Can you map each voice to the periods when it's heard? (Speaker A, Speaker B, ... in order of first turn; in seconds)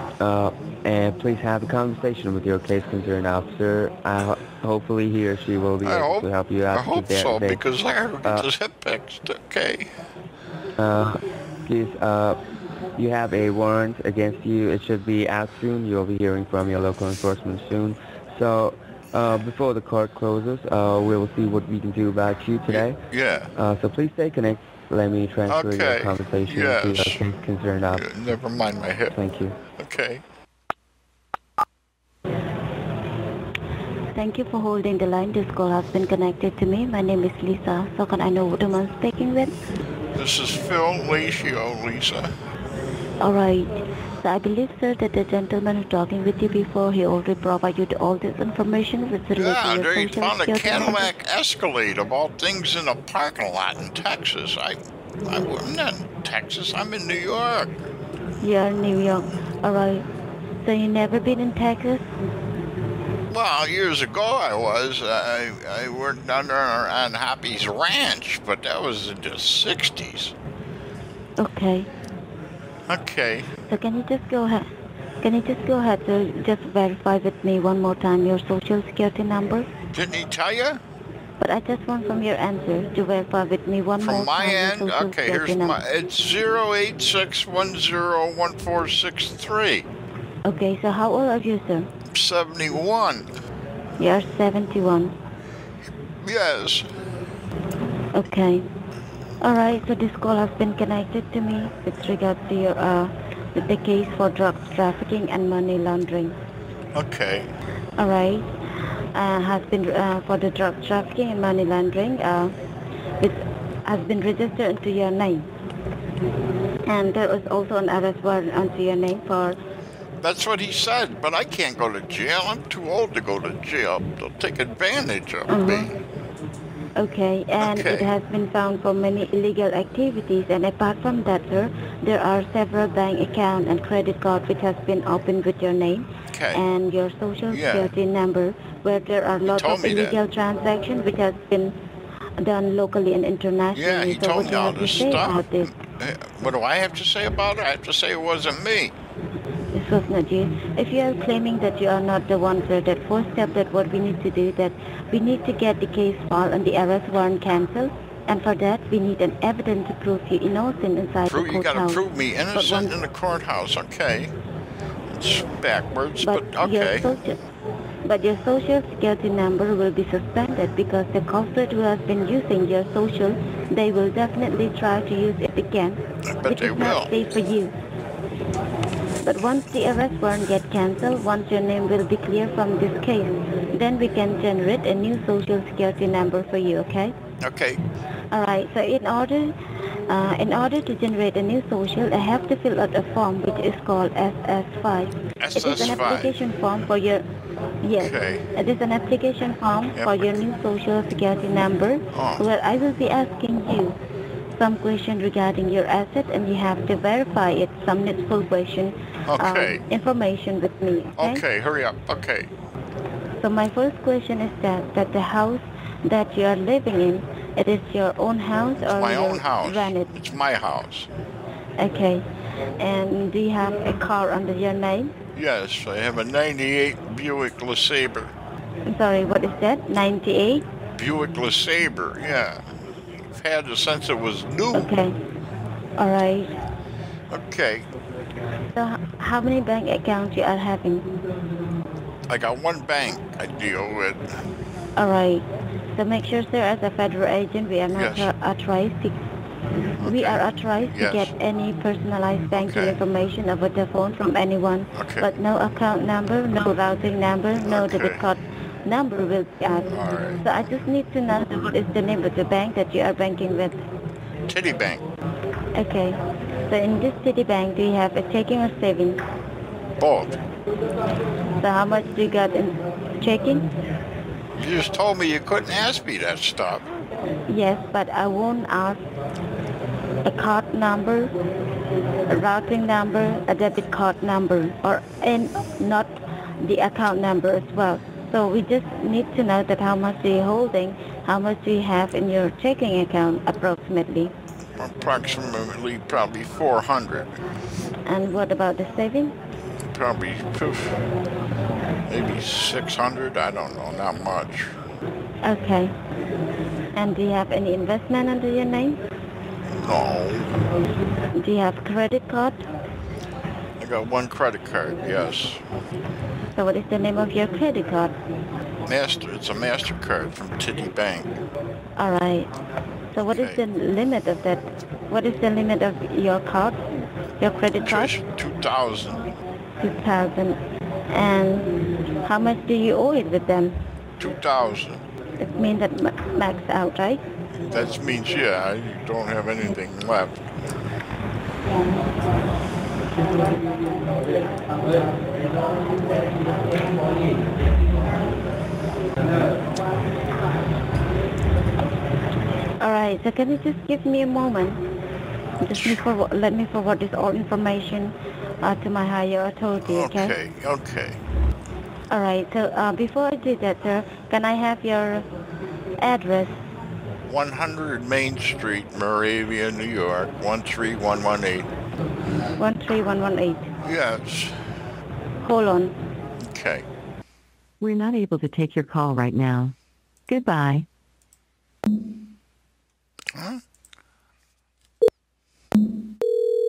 Speaker A: 0.2-7.6, 8.2-8.5, 10.8-12.4, 13.0-23.0, 23.6-28.1, 29.1-29.6
Speaker B: 5.8-9.9, 22.7-23.5, 25.5-27.2, 27.9-29.2, 29.8-30.2, 40.1-42.3, 49.4-57.8, 63.3-70.3, 72.9-73.6, 79.9-80.8, 84.0-89.9, 92.1-93.3, 96.2-96.9, 106.9-107.5, 120.2-125.9, 127.6-128.1, 136.3-136.6, 137.5-137.9, 139.4-140.2, 143.8-148.9, 161.3-164.3, 165.1-167.1, 176.3-177.1, 187.4-187.8, 195.4-196.4, 198.0-198.5, 200.0-200.4, 202.1-202.4, 209.3-209.8, 211.2-212.5, 218.8-221.1, 225.3-228.3, 230.9-232.7, 233.2-234.9, 237.3-237.9, 242.3-244.3, 248.0-248.3, 250.0-251.3, 252.5-253.0, 254.9-255.3, 257.6-258.2, 259.9-260.4, 264.5-265.0, 270.0-270.4, 274.5-276.9, 294.8-297.3, 299.9-301.0, 302.1-304.8, 309.7-310.5, 313.8-315.6, 318.9-321.4, 323.3-323.6, 327.8-329.3, 334.2-335.0, 337.7-340.5, 359.8-361.2, 367.3-371.7, 373.8-374.6, 376.4-376.9, 383.3-383.6
Speaker C: 34.1-39.5, 43.2-51.1, 58.4-60.1, 60.6-62.1, 71.4-71.9, 73.7-74.7, 75.2-79.7, 81.4-85.8, 90.5-91.9, 94.0-95.2, 98.1-98.7, 99.4-106.4, 108.0-108.5, 109.1-112.5, 113.2-115.5, 116.8-119.6, 125.5-125.9, 127.0-141.8, 142.4-145.7, 149.7-162.0, 162.5-163.0, 166.2-167.4, 168.0-177.7, 179.2-187.2, 188.3-189.6, 190.1-197.3, 197.8-204.0, 204.6-211.4, 213.4-220.1, 221.8-222.3, 222.8-225.2, 228.9-230.7, 234.8-235.2, 236.0-236.5, 238.8-241.1, 245.0-249.2, 250.1-263.8, 265.7-269.2, 271.6-273.7, 277.5-279.1, 280.2-281.3, 282.3-294.3, 298.1-299.4, 305.4-306.0, 306.9-309.0, 311.3-312.6, 316.6-318.2, 322.0-322.5, 323.1-326.9, 327.4-328.2, 329.8-333.8, 335.4-337.2, 352.8-354.9, 355.6-360.4, 362.1-365.3, 366.0-366.6, 372.6-373.7, 375.4-376.0
Speaker D: 377.8-379.7, 380.3-380.9